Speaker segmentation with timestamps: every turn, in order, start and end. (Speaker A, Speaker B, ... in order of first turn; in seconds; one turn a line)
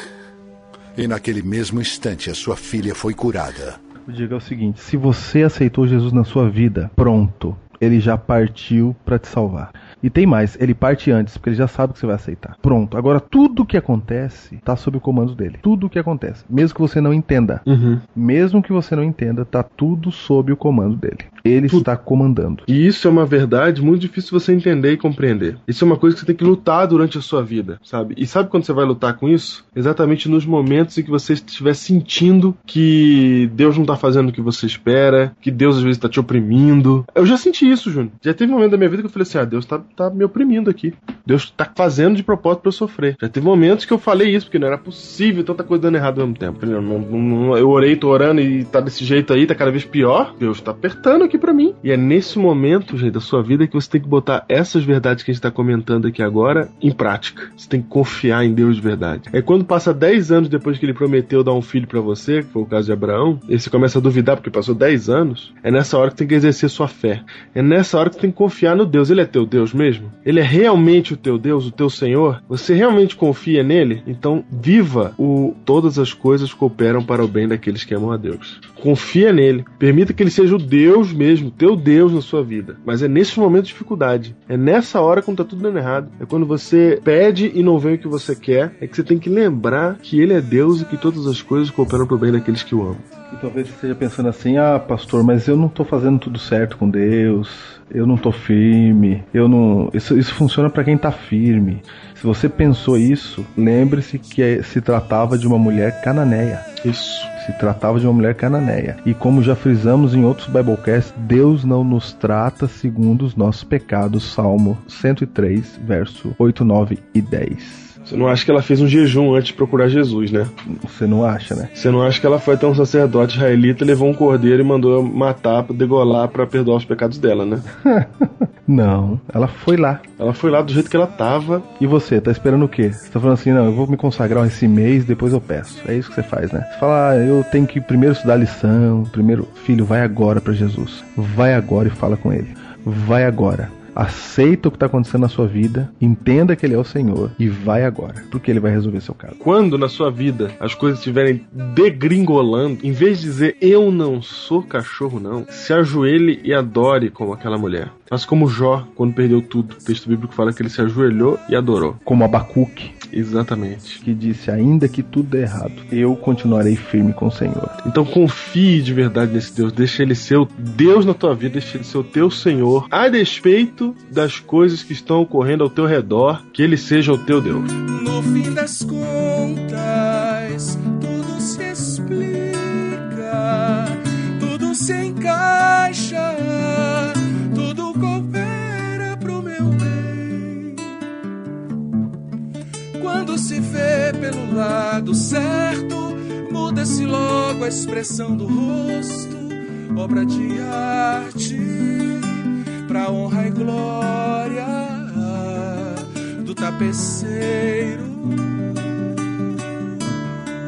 Speaker A: 1.0-3.8
Speaker B: 4.0-17.6
Speaker C: 17.7-18.0
Speaker B: 18.1-22.7
Speaker C: 22.7-93.1
Speaker B: 93.3-106.7
Speaker C: 106.8-107.3
Speaker B: 107.4-118.0
Speaker C: 118.1-120.5
Speaker B: 120.7-121.7
Speaker C: 121.8-127.7
Speaker B: 127.8-130.0
Speaker C: 130.2-131.7
Speaker B: 131.8-149.4
Speaker C: 149.4-162.0
Speaker B: 162.1-163.0
Speaker C: 163.1-164.0
Speaker B: 164.0-167.8
Speaker C: 167.8-177.7
Speaker D: 177.7-190.9
Speaker D: 193.0-209.1